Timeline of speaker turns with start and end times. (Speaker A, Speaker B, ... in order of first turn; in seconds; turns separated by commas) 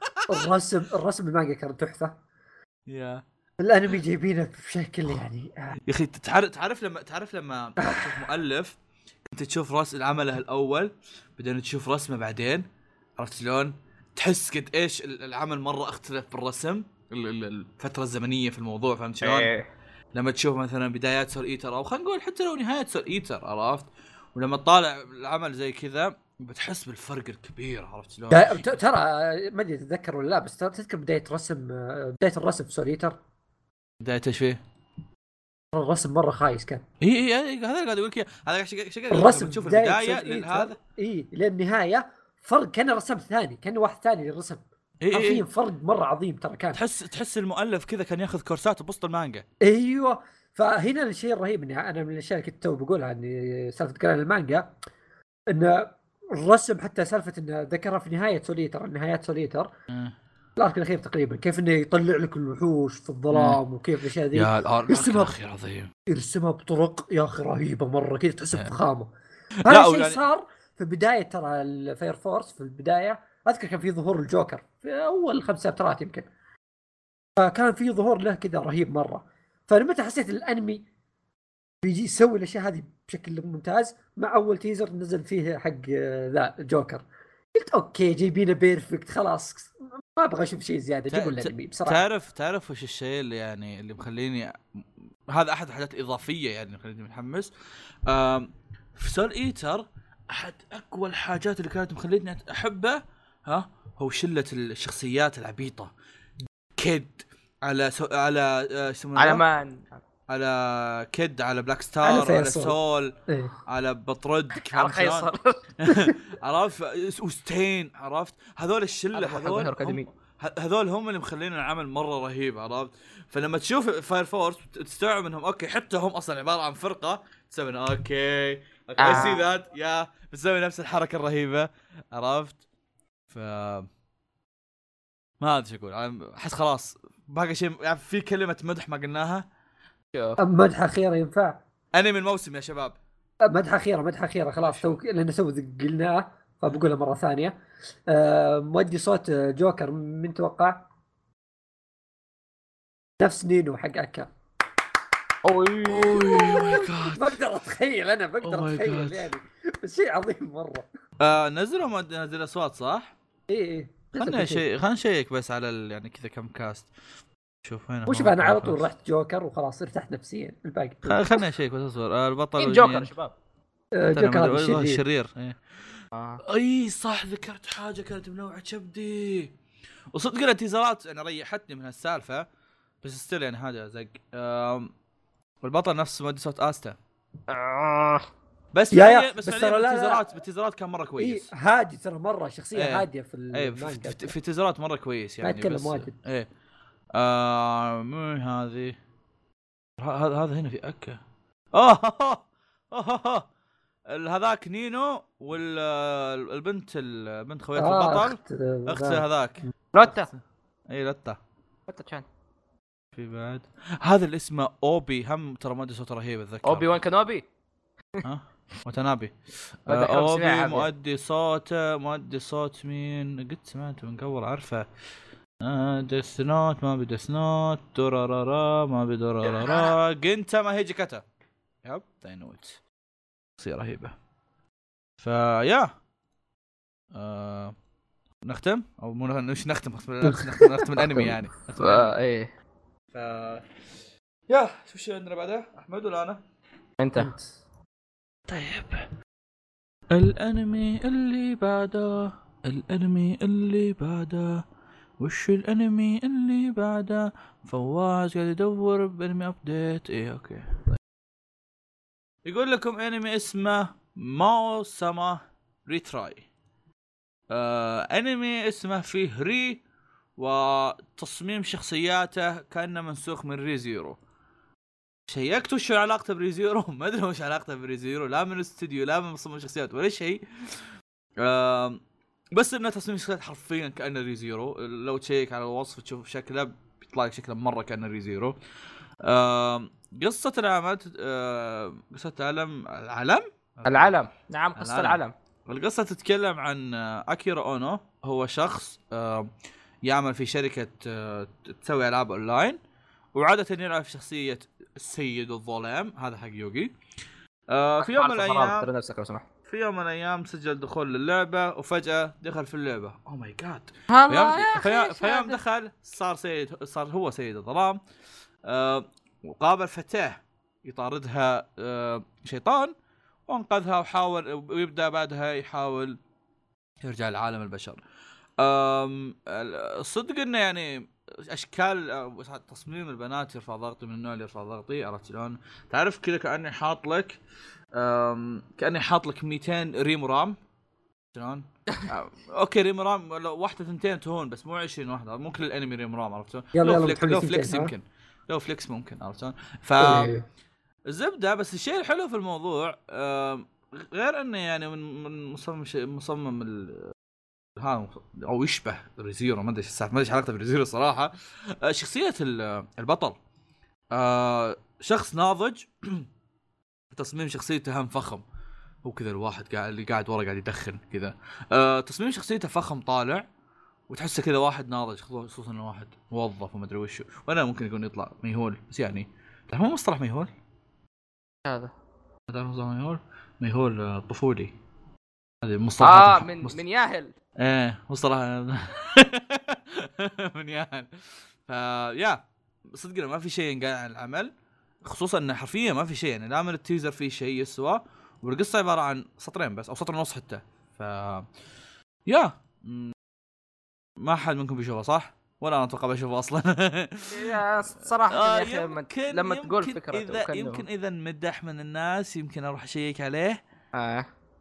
Speaker A: 0.2-0.5, Speaker B: 0.3-2.2, Speaker A: 2.9-3.2, Speaker B: 3.6-5.8, Speaker A: 5.9-8.8, Speaker B: 7.8-8.3, Speaker A: 9.3-12.7, Speaker A: 13.2-19.5, Speaker C: 19.2-19.7, Speaker A: 20.1-28.8, Speaker B: 28.3-33.2, Speaker A: 34.0-34.6, Speaker B: 35.7-36.8, Speaker A: 37.0-40.8, Speaker B: 39.1-46.8, Speaker A: 45.0-45.5, Speaker A: 46.7-49.5, Speaker B: 49.6-54.7, Speaker B: 55.5-59.7, Speaker B: 60.6-65.3, Speaker A: 63.3-63.6, Speaker A: 64.3-65.9, Speaker B: 66.1-69.1, Speaker A: 69.7-70.2, Speaker B: 69.7-76.3, Speaker B: 77.4-80.9, Speaker B: 81.8-92.1, Speaker A: 91.1-97.5, Speaker A: 98.1-105.9, Speaker A: 106.8-109.4, Speaker C: 109.2-110.0, Speaker A: 110.3-113.1, Speaker B: 112.0-112.8, Speaker B: 113.3-113.5, Speaker A: 113.7-132.6, Speaker C: 114.6-115.6, Speaker C: 119.1-120.1, Speaker C: 129.0-129.4, Speaker A: 133.3-133.9, Speaker A: 135.4-139.4, Speaker C: 140.1-140.4, Speaker B: 140.4-141.6, Speaker A: 141.9-143.0, Speaker B: 143.4-147.6, Speaker A: 144.6-144.9, Speaker B: 148.1-150.9, Speaker B: 153.2-154.3, Speaker C: 155.4-156.7, Speaker A: 155.9-157.3, Speaker B: 156.1-160.9, Speaker A: 158.4-159.3, Speaker A: 161.2-163.1, Speaker B: 163.5-164.6, Speaker A: 164.2-166.9, Speaker A: 167.7-168.8, Speaker B: 168.1-171.5, Speaker A: 171.1-173.1, Speaker C: 172.6-173.3, Speaker B: 173.9-175.0, Speaker A: 174.2-175.6, Speaker C: 176.1-176.4, Speaker A: 176.4-179.5, Speaker A: 180.1-182.5, Speaker A: 183.0-184.9, Speaker A: 185.6-187.0, Speaker C: 187.5-188.2, Speaker A: 188.7-191.5, Speaker B: 188.9-190.3, Speaker B: 191.2-194.3, Speaker A: 192.8-196.5, Speaker B: 195.4-196.2, Speaker A: 197.2-199.0, Speaker A: 200.0-201.2, Speaker A: 201.7-203.5, Speaker A: 204.1-211.4, Speaker B: 207.8-209.2, Speaker C: 209.9-210.3, Speaker C: 211.9-212.3, Speaker A: 213.1-216.9, Speaker C: 216.6-217.4, Speaker A: 218.2-219.3, Speaker A: 219.9-224.9, Speaker C: 219.9-220.9, Speaker A: 225.6-231.2, Speaker C: 229.4-230.0, Speaker A: 231.8-232.8, Speaker A: 233.6-234.2, Speaker A: 235.2-235.9, Speaker A: 237.1-237.7, Speaker A: 238.4-242.1, Speaker B: 240.2-241.3, Speaker C: 241.8-242.5, Speaker A: 243.1-243.7, Speaker A: 244.5-246.4, Speaker C: 247.0-247.3, Speaker B: 247.2-247.6, Speaker A: 248.5-249.1, Speaker A: 250.1-254.6, Speaker A: 255.2-261.0, Speaker A: 262.4-266.5, Speaker A: 267.5-269.8, Speaker A: 270.4-274.2, Speaker A: 275.3-280.8, Speaker A: 281.4-282.0, Speaker A: 282.5-288.6, Speaker A: 289.2-294.1, Speaker C: 293.9-295.3, Speaker A: 294.8-299.5, Speaker A: 300.1-302.8, Speaker A: 303.4-306.9, Speaker A: 307.7-308.9, Speaker C: 308.0-309.4, Speaker A: 309.6-318.0, Speaker C: 314.1-315.6, Speaker A: 318.7-322.9, Speaker A: 323.5-326.2, Speaker A: 327.0-328.0, Speaker A: 328.6-337.4, Speaker A: 337.9-340.6, Speaker A: 341.3-350.3, Speaker B: 346.8-347.9, Speaker B: 350.0-350.4, Speaker A: 351.1-357.1, Speaker A: 357.8-363.4, Speaker A: 364.1-366.3, Speaker A: 367.1-368.4, Speaker A: 369.0-373.5, Speaker A: 374.1-380.5, Speaker C: 381.6-381.9, Speaker A: 382.5-384.7, Speaker A: 385.6-386.8, Speaker C: 386.0-387.3, Speaker A: 387.6-391.1, Speaker A: 391.7-392.4, Speaker A: 392.9-394.5, Speaker A: 395.0-401.5, Speaker A: 402.3-403.1, Speaker A: 404.2-407.6, Speaker C: 407.3-410.9, Speaker A: 408.3-413.6, Speaker C: 413.9-414.3